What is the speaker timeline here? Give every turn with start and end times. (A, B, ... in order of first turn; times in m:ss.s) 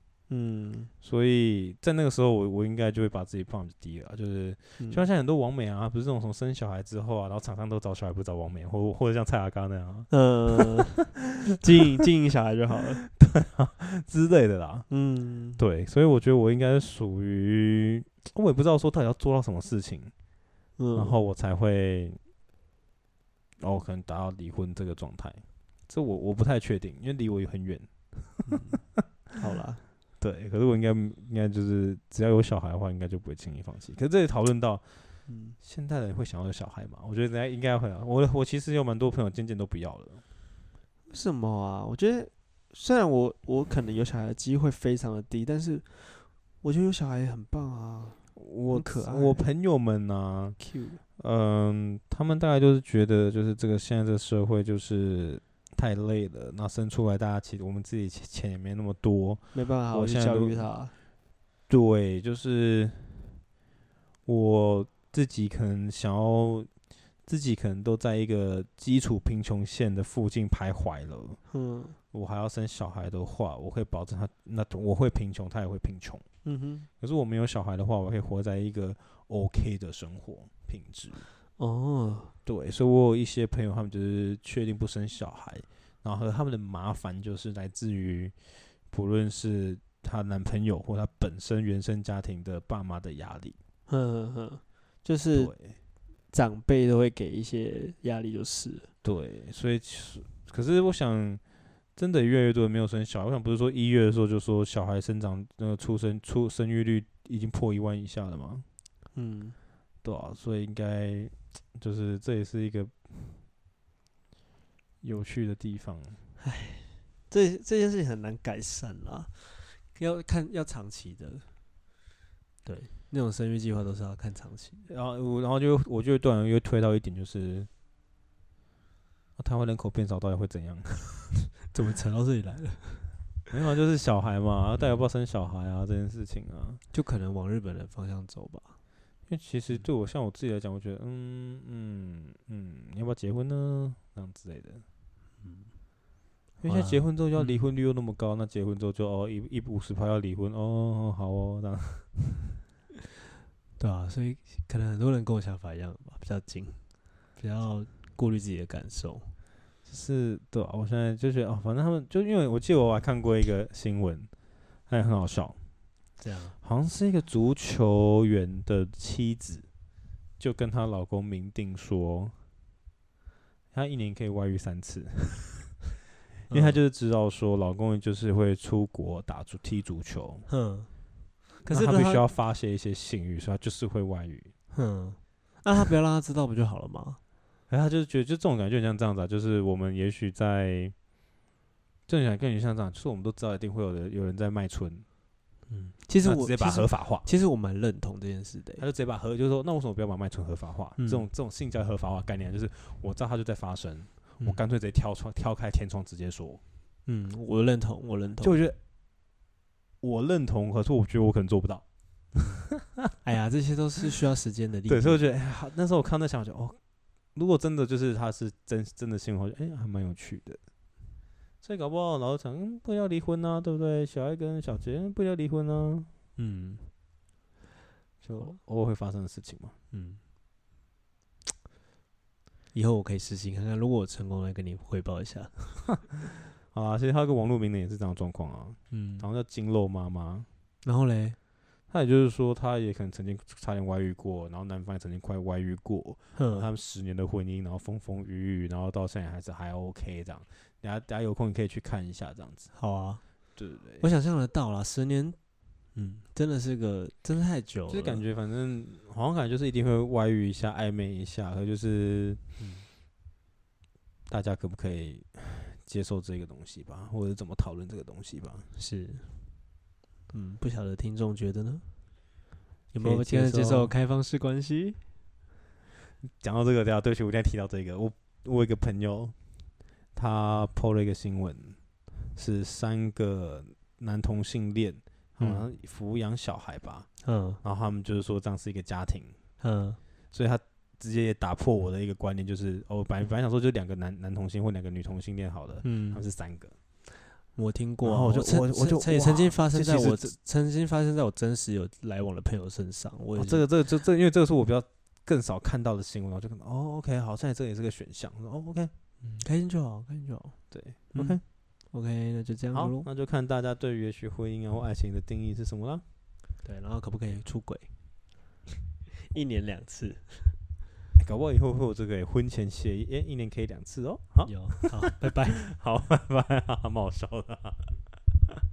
0:00.3-0:00.9 A
0:01.0-0:10.8 B
0:04.8-0:05.1 A
0:10.1-0:13.0 A
0:13.1-0:14.9 B
0:14.9-0:15.6 A
0:15.6-0:20.1 B
0:20.8-0:21.2 A
0:20.9-0:22.2 B
0:23.6-0:28.4 B
0:28.5-0:28.8 A
0:29.3-0:29.8 A
0:30.2-0:40.2 B
0:35.3-0:35.6 A
0:41.1-0:49.4 A
0:48.4-0:50.6 B
0:50.6-0:51.0 A
0:51.2-1:00.7 B
0:59.5-1:01.0 A
1:01.7-1:03.4 B
1:04.2-1:06.7 B
1:07.2-1:11.4 B
1:11.5-1:12.0 A
1:12.1-1:16.2 B
1:16.4-1:16.9 A
1:17.0-1:21.3 B
1:21.6-1:22.3 A
1:22.5-1:33.6 B
1:33.9-1:35.5 A
1:35.3-1:35.8 B
1:36.3-1:38.9 A
1:39.0-1:41.4 B
1:42.0-1:48.6 B
1:49.1-1:49.6 A
1:50.0-1:53.4 B
1:55.0-1:56.2 B
1:56.4-2:01.5 A
2:02.6-2:04.9 A
2:04.9-2:07.7 B
2:09.4-2:11.4 B
2:11.7-2:13.1 A
2:13.5-2:16.8 B
2:16.9-2:18.8 A
2:19.3-2:24.8 B
2:25.4-2:25.7 A
2:26.6-2:32.3 B
2:26.6-2:27.6 A
2:33.8-2:36.8 A
2:37.4-2:39.3 A
2:39.9-2:44.3 B
2:44.9-2:45.6 B
2:46.2-2:46.6 A
2:46.6-2:49.6 B
2:50.4-2:52.4 B
2:53.7-2:55.8 B
2:56.5-2:56.8 A
2:56.5-3:00.4 B
3:00.5-3:00.9 A
3:01.6-3:02.3 A
3:01.6-3:04.5 B
3:04.7-3:07.2 A
3:07.7-3:10.9 B
3:12.1-3:15.0 B
3:15.7-3:18.9 A
3:16.2-3:17.3 B
3:18.8-3:26.6 B
3:21.0-3:21.3 A
3:27.1-3:28.6 A
3:28.4-3:28.8 B
3:30.0-3:31.8 B
3:32.4-3:32.6 A
3:33.2-3:35.2 A
3:34.9-3:36.8 B
3:37.3-3:40.6 B
3:41.6-3:46.1 B
3:46.4-3:46.9 A
3:48.2-3:49.7 B
3:48.3-3:48.6 A
3:49.9-3:50.2 A
3:52.7-3:56.0 A
3:56.7-4:00.5 B
3:58.9-3:59.3 A
4:00.8-4:01.4 A
4:01.9-4:12.7 B
4:06.4-4:06.7 A
4:12.7-4:13.2 A
4:13.6-4:14.1 B
4:14.0-4:15.4 A
4:15.9-4:18.2 A
4:17.9-4:22.4 B
4:22.6-4:22.9 A
4:24.3-4:28.6 B
4:28.8-4:29.4 A
4:30.3-4:31.8 A
4:32.9-4:35.0 A
4:33.0-4:33.9 B
4:36.2-4:39.4 B
4:40.1-4:41.8 B
4:42.4-4:47.1 B
4:45.4-4:45.6 A
4:47.2-4:47.6 A
4:47.6-4:49.4 B
4:49.6-4:50.0 A
4:50.3-4:56.8 B
4:55.8-4:56.2 A
4:57.1-5:03.7 A
4:58.0-5:00.4 B
5:03.4-5:08.9 B
5:09.2-5:10.6 A
5:10.7-5:11.4 B
5:11.1-5:13.1 A
5:12.7-5:16.0 B
5:16.6-5:17.9 A
5:19.3-5:20.6 A
5:21.2-5:24.6 B
5:24.4-5:25.7 A
5:25.6-5:28.0 B